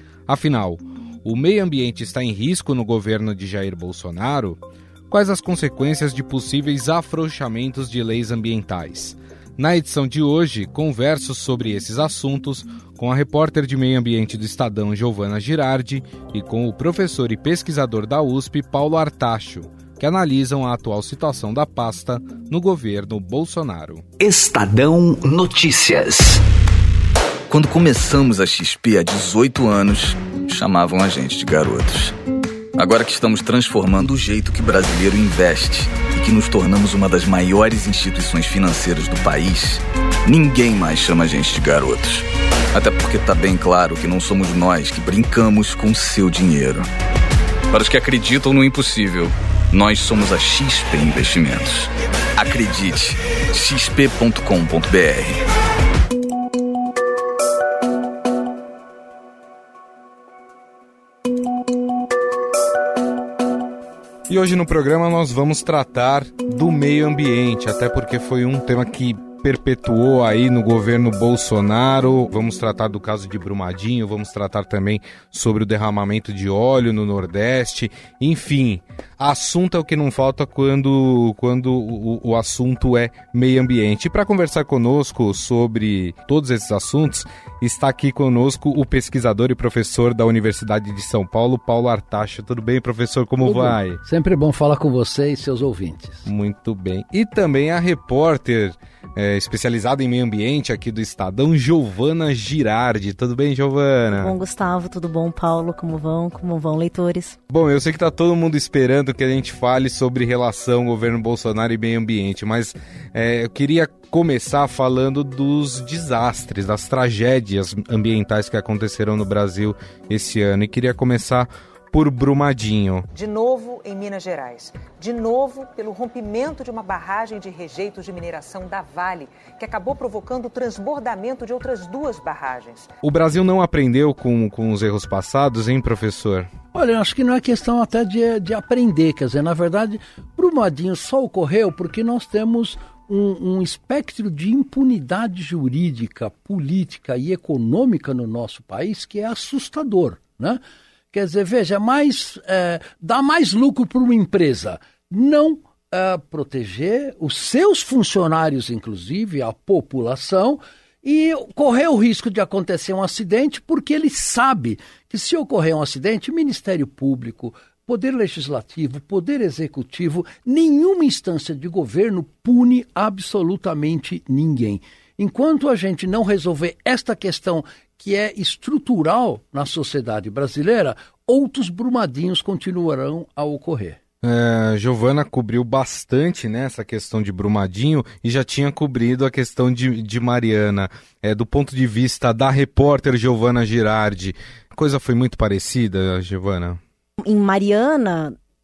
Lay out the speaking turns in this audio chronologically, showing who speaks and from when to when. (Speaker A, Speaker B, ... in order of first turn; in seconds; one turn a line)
Speaker A: 0.3-24.1
Speaker B: 24.2-26.4
Speaker B: 27.5-32.1
Speaker B: 32.8-46.9
Speaker B: 47.7-55.4
Speaker A: 64.3-94.0
Speaker C: 93.4-96.3
Speaker A: 96.3-104.3
Speaker D: 104.2-107.4
Speaker A: 107.5-123.1
Speaker E: 123.1-132.9
Speaker A: 133.0-136.5
Speaker C: 136.7-150.6
Speaker C: 151.1-184.0
Speaker A: 184.2-196.8
Speaker D: 197.2-198.4